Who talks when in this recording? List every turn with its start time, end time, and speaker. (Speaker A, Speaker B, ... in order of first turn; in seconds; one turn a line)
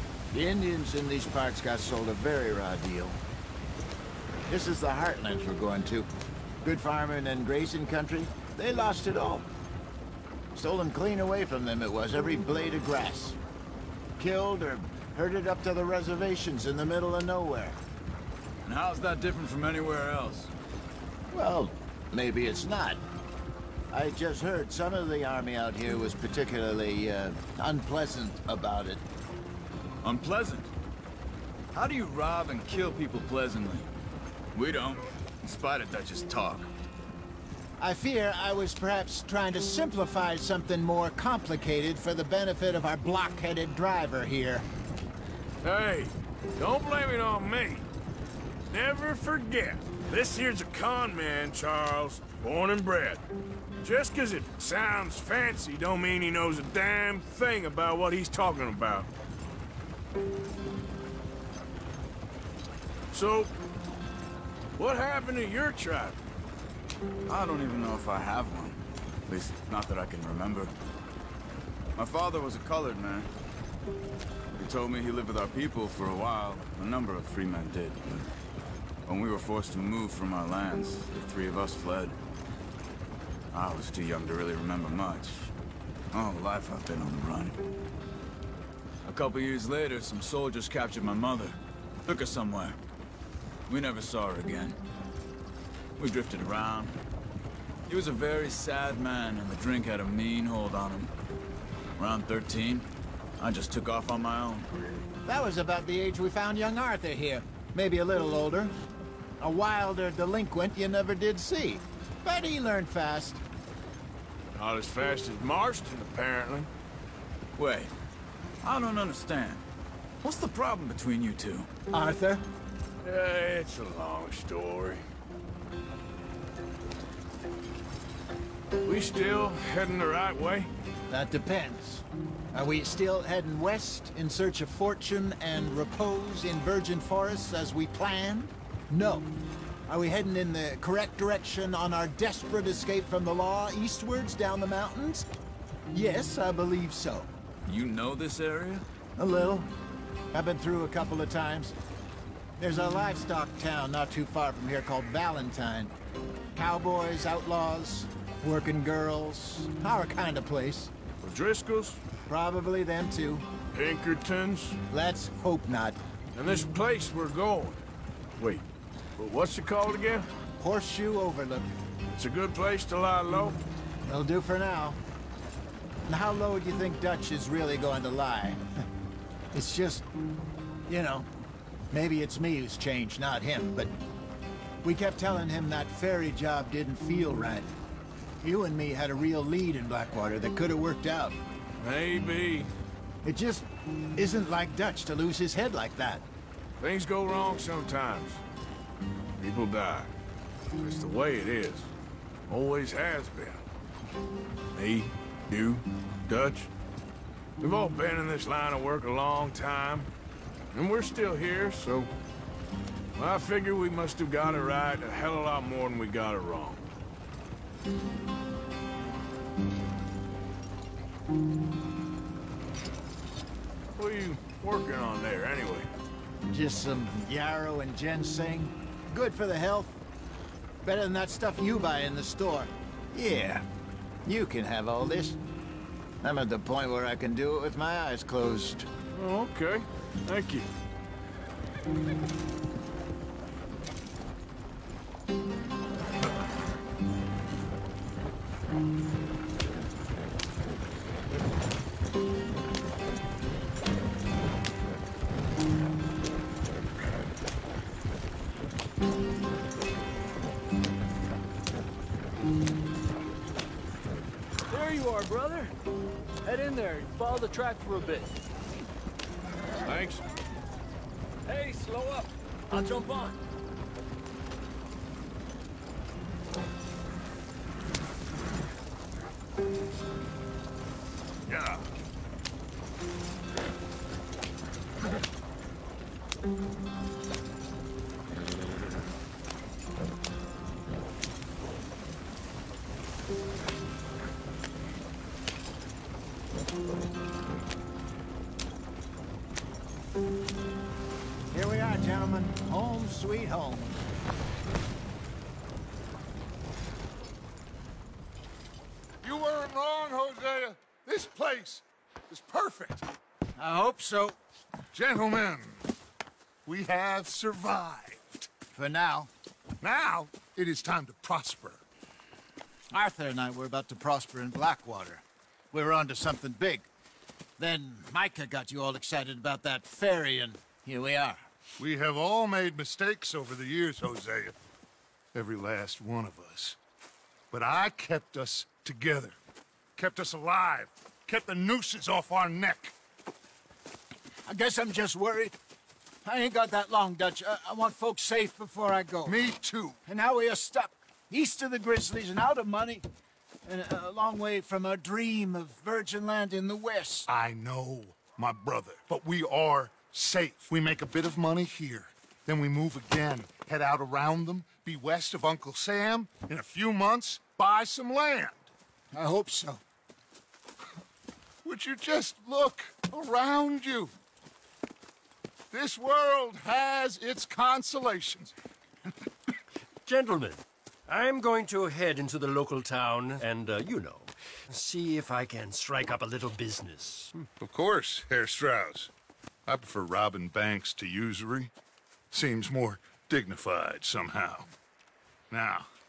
Speaker A: 0.3-3.2
Speaker A: 4.5-6.1
Speaker A: 6.6-9.5
Speaker A: 10.6-13.4
Speaker A: 14.2-17.8
Speaker B: 18.6-20.5
Speaker A: 21.3-23.0
Speaker A: 23.9-29.0
Speaker B: 30.0-30.7
Speaker B: 31.7-33.9
Speaker B: 34.5-36.7
Speaker A: 37.8-44.6
Speaker C: 45.6-47.9
Speaker C: 48.7-53.2
Speaker C: 53.8-59.1
Speaker C: 63.1-63.5
Speaker C: 64.8-66.2
Speaker B: 67.3-70.7
Speaker B: 72.0-73.3
Speaker B: 74.6-78.3
Speaker B: 79.1-82.2
Speaker B: 83.5-85.5
Speaker B: 86.1-87.6
Speaker B: 89.1-92.8
Speaker B: 93.7-94.8
Speaker B: 96.0-97.0
Speaker B: 97.9-101.1
Speaker B: 102.0-102.9
Speaker B: 103.4-104.7
Speaker A: 105.2-108.8
Speaker A: 109.4-113.4
Speaker C: 114.5-116.7
Speaker B: 117.6-117.9
Speaker B: 118.6-119.6
Speaker B: 120.2-121.7
Speaker A: 121.9-122.4
Speaker C: 123.0-125.0
Speaker C: 128.8-130.7
Speaker A: 131.1-139.3
Speaker A: 139.9-145.3
Speaker A: 145.9-147.3
Speaker B: 147.7-148.8
Speaker A: 149.2-149.7
Speaker A: 150.3-151.7
Speaker A: 152.6-155.9
Speaker A: 156.6-160.9
Speaker C: 161.2-162.0
Speaker A: 162.3-163.5
Speaker C: 163.7-164.8
Speaker A: 164.9-166.0
Speaker C: 166.3-167.8
Speaker C: 168.4-168.7
Speaker C: 169.2-170.3
Speaker A: 170.6-171.7
Speaker C: 172.1-173.6
Speaker A: 174.1-175.0
Speaker A: 176.1-178.7
Speaker A: 179.5-180.1
Speaker A: 180.9-181.3
Speaker A: 181.9-183.9
Speaker A: 184.8-187.7
Speaker A: 188.4-191.4
Speaker C: 191.8-192.7
Speaker A: 193.2-196.2
Speaker C: 196.8-198.4
Speaker C: 199.4-200.1
Speaker C: 200.8-201.9
Speaker C: 202.5-203.6
Speaker C: 204.7-206.7
Speaker C: 207.6-210.1
Speaker C: 210.7-212.1
Speaker C: 213.2-216.8
Speaker C: 224.0-225.9
Speaker A: 226.4-230.0
Speaker A: 230.8-233.6
Speaker A: 234.2-235.4
Speaker A: 236.2-238.9
Speaker C: 239.2-240.7
Speaker D: 264.7-265.7
Speaker D: 266.4-268.4
Speaker C: 269.8-270.2
Speaker D: 271.5-273.4
Speaker C: 281.5-281.8
Speaker A: 301.5-304.0
Speaker E: 309.2-313.1
Speaker A: 313.6-314.4
Speaker E: 314.9-315.9
Speaker E: 316.7-318.5
Speaker A: 318.7-319.3
Speaker E: 319.8-321.8
Speaker A: 322.9-326.9
Speaker A: 327.6-331.4
Speaker E: 331.8-334.5
Speaker E: 335.3-336.8
Speaker E: 337.5-339.4
Speaker E: 340.0-342.9
Speaker A: 344.5-345.6
Speaker A: 346.2-349.4
Speaker E: 349.2-350.0
Speaker A: 350.1-353.1
Speaker A: 353.7-357.3
Speaker E: 357.3-368.7
Speaker A: 369.1-369.8
Speaker E: 371.6-374.1
Speaker E: 375.7-378.5
Speaker F: 380.1-387.5
Speaker E: 387.6-389.1
Speaker E: 389.7-391.7
Speaker E: 392.3-394.7
Speaker E: 395.5-395.9